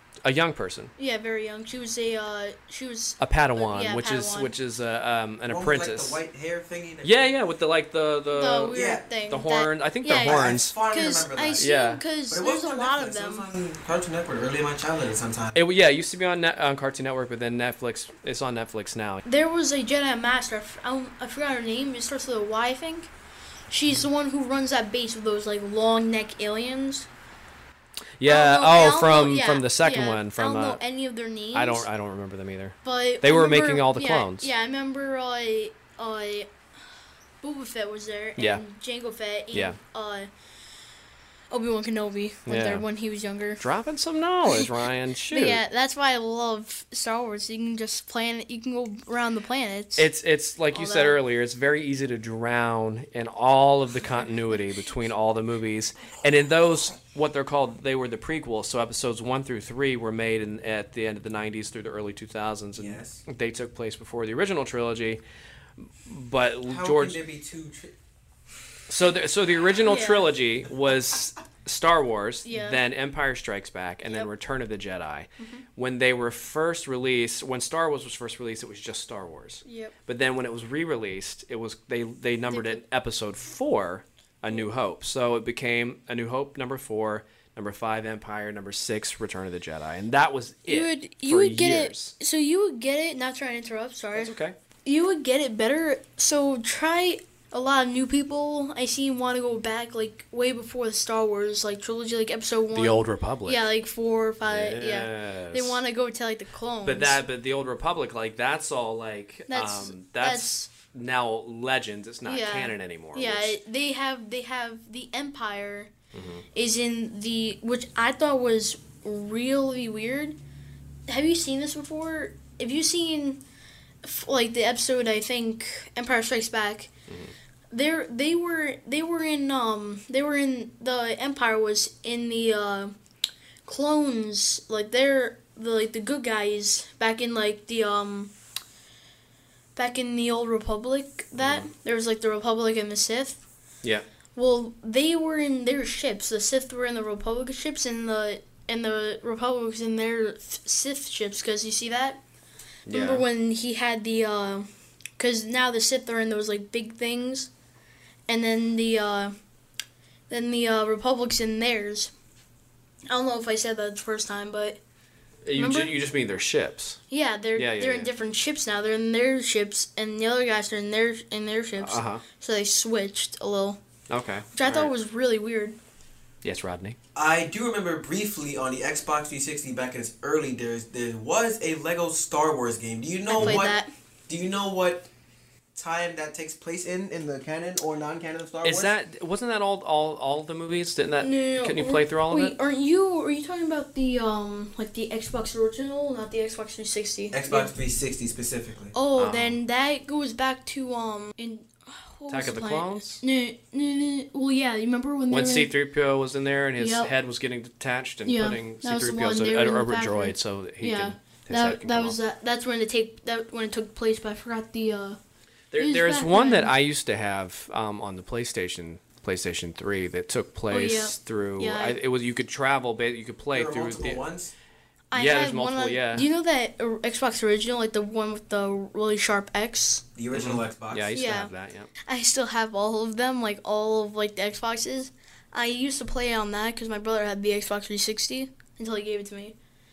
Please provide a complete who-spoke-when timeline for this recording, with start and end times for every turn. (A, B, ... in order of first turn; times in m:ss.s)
0:00.2-0:00.9 A
0:01.0-0:04.5 B
0:03.2-0:06.2 A
0:05.5-0:07.3 C
0:07.0-0:10.7 A
0:08.3-0:13.5 B
0:08.7-0:09.0 C
0:10.2-0:11.7 C
0:11.6-0:12.0 A
0:12.3-0:15.6 C
0:15.6-0:19.2 A
0:19.2-0:23.1 B
0:23.7-0:27.1 B
0:28.2-0:30.8 A
0:28.2-0:31.9 B
0:31.5-0:34.5 A
0:32.8-0:36.5 B
0:37.4-0:40.3 B
0:38.4-0:38.6 A
0:39.5-0:39.8 A
0:41.5-0:43.6 B
0:42.5-0:42.8 A
0:43.6-0:45.6 A
0:45.3-0:50.1 B
0:50.0-1:05.2 A
0:50.7-0:51.2 B
1:02.8-1:03.2 C
1:06.0-1:07.2 A
1:06.7-1:07.9 C
1:08.9-1:32.2 A
1:09.8-1:10.3 B
1:12.4-1:12.8 B
1:15.4-1:15.6 B
1:19.6-1:20.0 B
1:22.5-1:22.8 B
1:30.7-1:34.3 B
1:34.2-1:34.6 A
1:34.8-1:47.2 B
1:42.7-1:43.7 A
1:44.4-1:45.8 A
1:46.8-1:53.6 A
1:49.5-1:50.7 B
1:52.2-1:55.9 B
1:56.1-1:56.4 A
1:56.5-2:00.4 B
2:01.1-2:03.4 B
2:04.0-2:06.9 B
2:07.1-2:07.3 A
2:07.7-2:12.9 B
2:13.6-2:18.3 B
2:19.8-2:23.4 B
2:21.4-2:21.7 A
2:24.4-2:32.2 B
2:32.9-2:33.2 A
2:32.9-2:37.5 B
2:38.3-2:39.3 B
2:40.3-2:42.1 B
2:43.1-2:44.8 B
2:45.4-2:47.0 A
2:45.6-2:45.9 B
2:47.1-2:53.8 B
2:47.6-2:48.1 A
2:51.8-2:52.2 A
2:54.1-2:54.9 A
2:54.6-2:55.8 B
2:56.4-2:57.0 A
2:57.2-3:03.8 C
3:03.3-3:03.9 B
3:03.4-3:03.6 A
3:04.3-3:05.1 C
3:05.8-3:08.9 C
3:08.6-3:12.6 A
3:11.2-3:17.7 B
3:17.3-3:18.9 C
3:18.9-3:25.7 B
3:19.2-3:19.6 A
3:22.3-3:23.2 A
3:25.3-3:32.2 A
3:26.8-3:27.1 B
3:28.3-3:35.2 B
3:35.7-3:44.2 A
3:35.8-3:36.7 B
3:40.7-3:42.0 B
3:43.5-3:44.5 C
3:45.1-3:50.0 B
3:45.1-3:46.3 A
3:50.2-3:51.1 C
3:50.3-3:51.9 A
3:51.1-3:51.5 B
3:52.0-3:59.6 B